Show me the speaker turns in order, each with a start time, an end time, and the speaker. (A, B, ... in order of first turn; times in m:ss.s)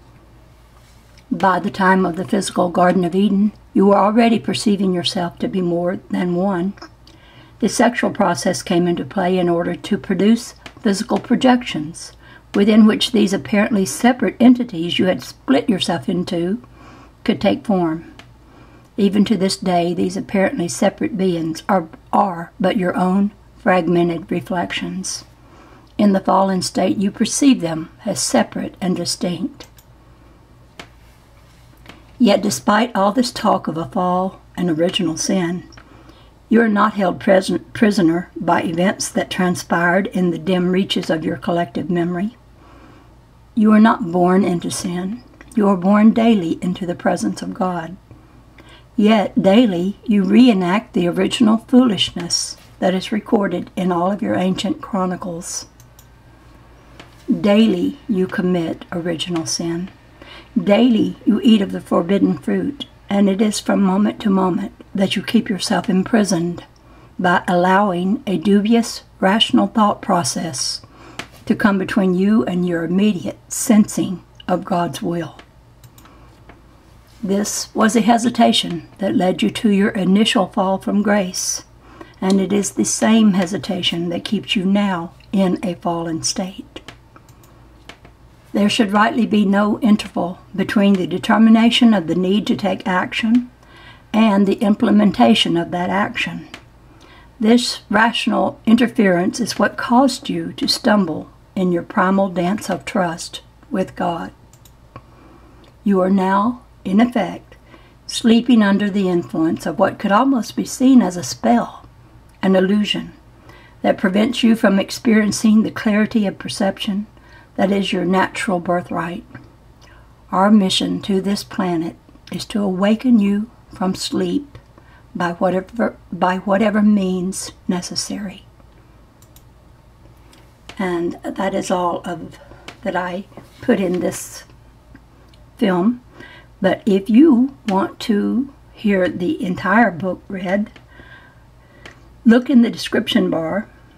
0:01.3-0:06.8 A
0:07.6-0:16.6 A
0:17.2-0:18.1 A
0:19.0-0:25.3 A
0:26.0-0:29.7 A
0:32.2-0:35.7 A
0:36.5-0:42.4 A
0:43.6-0:48.0 A
0:49.0-0:55.7 A
0:57.3-0:59.9 A
1:00.6-1:06.6 A
1:07.2-1:10.8 A
1:11.5-1:15.4 A
1:17.2-1:21.6 A
1:22.2-1:26.8 A
1:28.5-1:33.5 A
1:34.1-1:36.5 A
1:37.4-1:44.3 A
1:45.8-1:51.8 A
1:52.4-1:53.2 A
1:53.8-1:59.3 A
2:00.3-2:04.6 A
2:05.2-2:08.4 A
2:10.8-2:14.5 A
2:15.6-2:16.0 A
2:16.6-2:20.7 A
2:22.2-2:23.7 A